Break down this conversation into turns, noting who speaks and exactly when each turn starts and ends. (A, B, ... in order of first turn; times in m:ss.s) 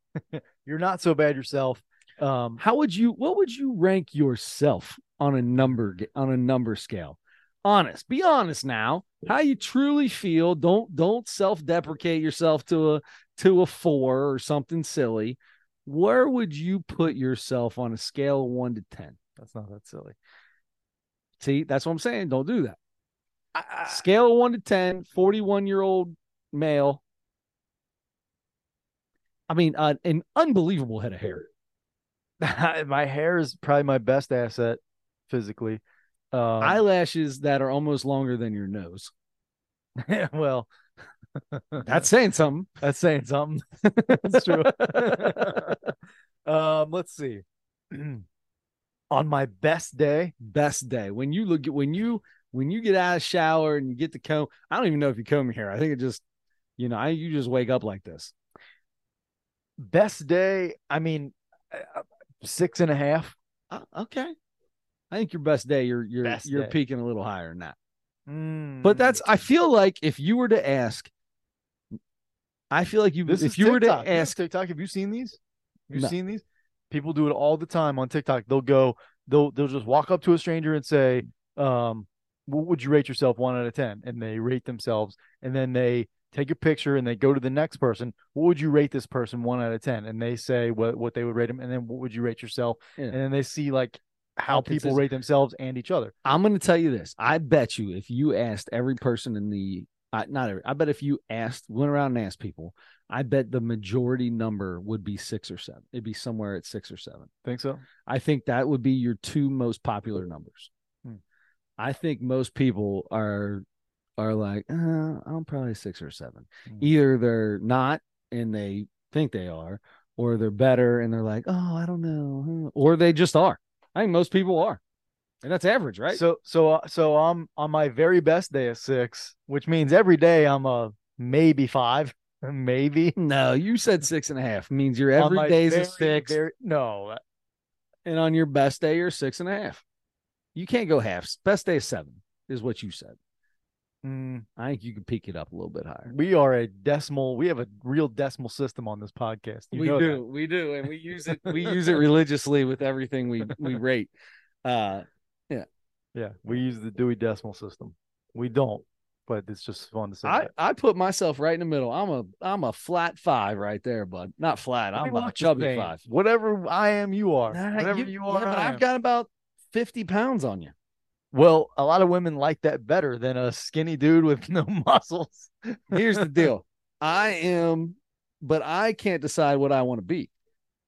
0:00.3-0:02.6 A
0:02.6-0:19.2 B
0:19.4-0:20.2 A
0:21.4-0:22.8 B
0:23.5-0:24.0 A
0:23.9-0:27.0 B
0:29.5-0:31.5 B
0:32.4-0:36.8 A
0:36.6-0:39.1 B
0:40.0-0:40.7 A
0:41.5-0:42.0 A
0:41.8-0:42.7 B
0:42.8-0:45.9 A
0:43.8-0:45.8 B
0:46.4-0:48.2 A
0:49.1-0:50.3 A
0:50.4-0:56.2 B
0:56.8-0:58.3 B
0:59.8-1:03.3 A
1:03.7-1:04.3 B
1:05.1-1:07.8 B
1:06.2-1:06.7 A
1:08.3-1:09.2 A
1:08.8-1:11.1 B
1:12.7-1:14.4 B
1:13.2-1:15.4 A
1:15.9-1:36.1 A
1:34.5-1:35.0 B
1:36.2-1:47.3 B
1:47.4-1:47.8 A
1:48.1-1:50.7 B
1:51.8-1:53.6 B
1:54.2-2:04.8 B
2:05.4-2:06.2 B
2:06.1-2:13.1 A
2:13.2-2:16.4 B
2:15.2-2:17.2 A
2:18.0-2:19.8 B
2:20.5-2:23.2 B
2:24.0-2:24.4 A
2:24.6-2:26.1 B
2:26.1-2:30.2 A
2:29.7-2:34.1 B
2:31.4-2:31.8 A
2:34.6-2:35.6 B
2:36.1-2:40.5 A
2:40.2-2:46.0 B
2:45.0-2:48.8 A
2:47.5-2:50.7 B
2:51.3-2:56.4 A
2:55.9-3:00.3 B